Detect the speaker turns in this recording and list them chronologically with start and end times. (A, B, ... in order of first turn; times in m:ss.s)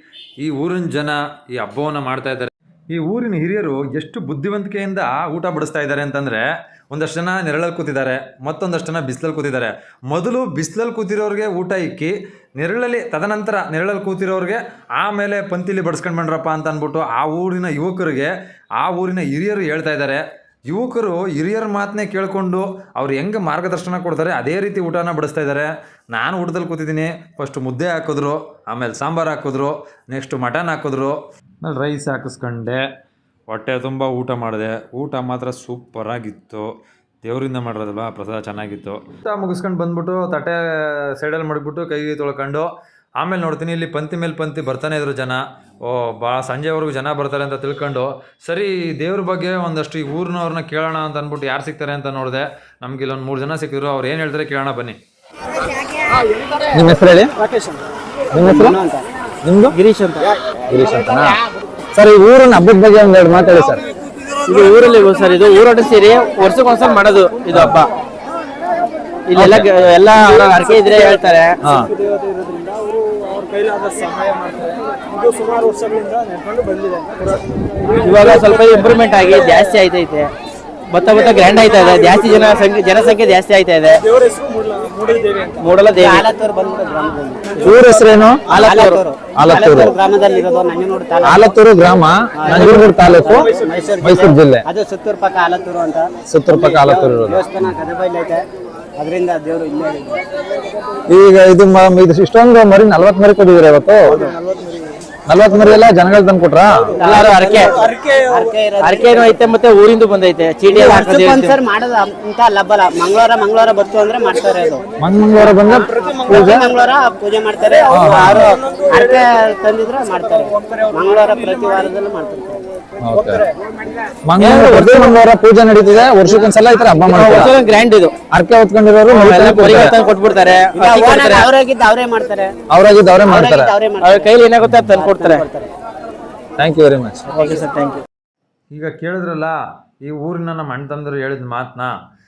0:00.4-0:32.8 A
0:33.5-0:36.7 A
0:37.2-0:42.7 A
0:43.2-0:55.0 A
0:56.7-0:57.4 B
0:58.3-0:58.8 B
0:58.4-0:59.0 C
0:59.4-0:59.7 B
0:59.7-1:00.3 D
1:00.7-1:01.3 B
1:00.8-1:01.2 A
1:01.9-1:03.8 B
1:04.4-1:07.9 D
1:09.3-1:11.6 D
1:12.1-1:17.3 E
1:18.0-1:20.3 D
1:20.9-1:24.1 D
1:24.5-1:25.4 E
1:25.5-1:26.3 D
1:26.0-1:27.7 C
1:27.6-1:28.4 B
1:28.5-1:29.0 D
1:28.5-1:31.6 C
1:29.4-1:29.9 B
1:31.3-1:33.5 B
1:32.4-1:38.4 C
1:34.0-1:34.6 B
1:36.5-1:37.3 B
1:39.0-1:40.2 C
1:41.1-1:44.2 B
1:45.3-1:47.0 B
1:47.0-1:47.8 D
1:47.0-1:49.5 C
1:48.8-1:51.6 D
1:50.7-2:02.6 C
1:55.0-1:56.6 B
1:58.0-1:58.5 B
2:03.1-2:03.5 B
2:04.3-2:07.5 B
2:04.4-2:05.2 D
2:07.0-2:08.2 D
2:08.3-2:10.0 B
2:09.1-2:11.5 D
2:10.8-2:12.5 C
2:12.7-2:13.7 B
2:13.2-2:14.3 C
2:14.0-2:15.4 D
2:14.9-2:15.7 C
2:16.6-2:17.2 B
2:17.3-2:17.7 C
2:17.4-2:18.0 D
2:18.7-2:21.9 A